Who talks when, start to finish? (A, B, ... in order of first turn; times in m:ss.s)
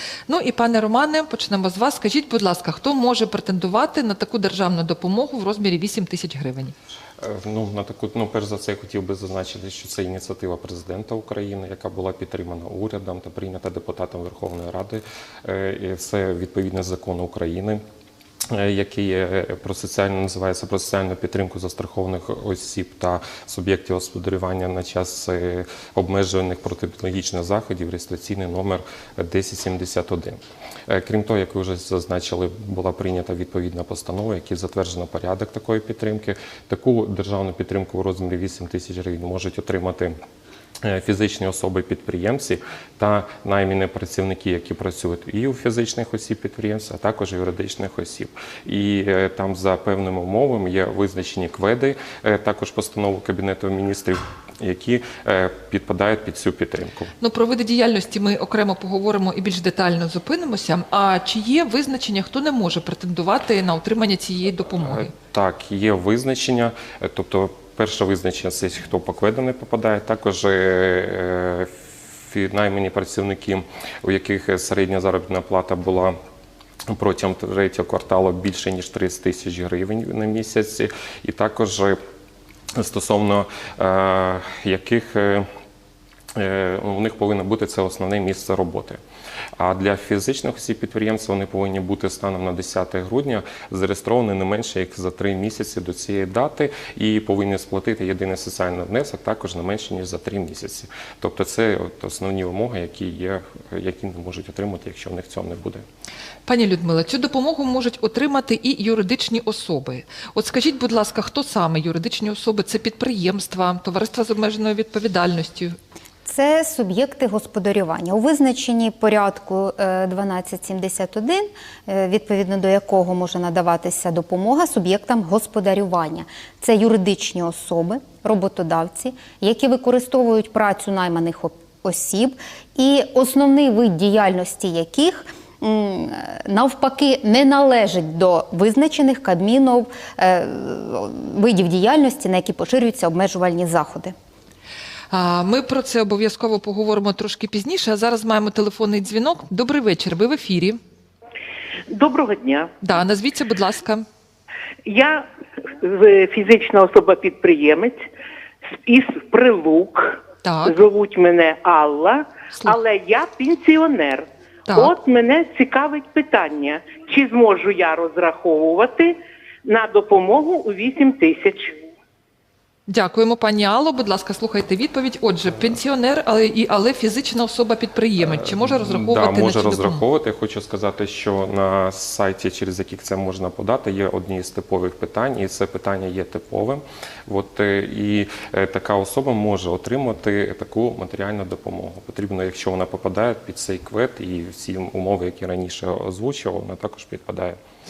0:00.3-0:06.7 A
0:07.2-0:17.8 B
0:18.5-0:40.1 B
0:40.8-0:57.1 B
0:57.2-1:05.1 A
1:04.8-1:16.1 B
1:16.9-1:22.0 B
1:22.8-1:25.5 B
1:26.4-1:29.0 B
1:29.6-1:45.8 B
1:46.4-1:55.8 A
1:56.2-2:24.1 C
2:25.1-2:30.8 A
2:31.9-2:32.7 D
2:32.8-2:34.0 A
2:34.8-2:38.0 D
2:38.8-2:51.7 D
2:40.4-2:40.8 A
2:44.7-2:44.9 A
2:52.9-3:00.0 A
2:58.2-3:17.6 B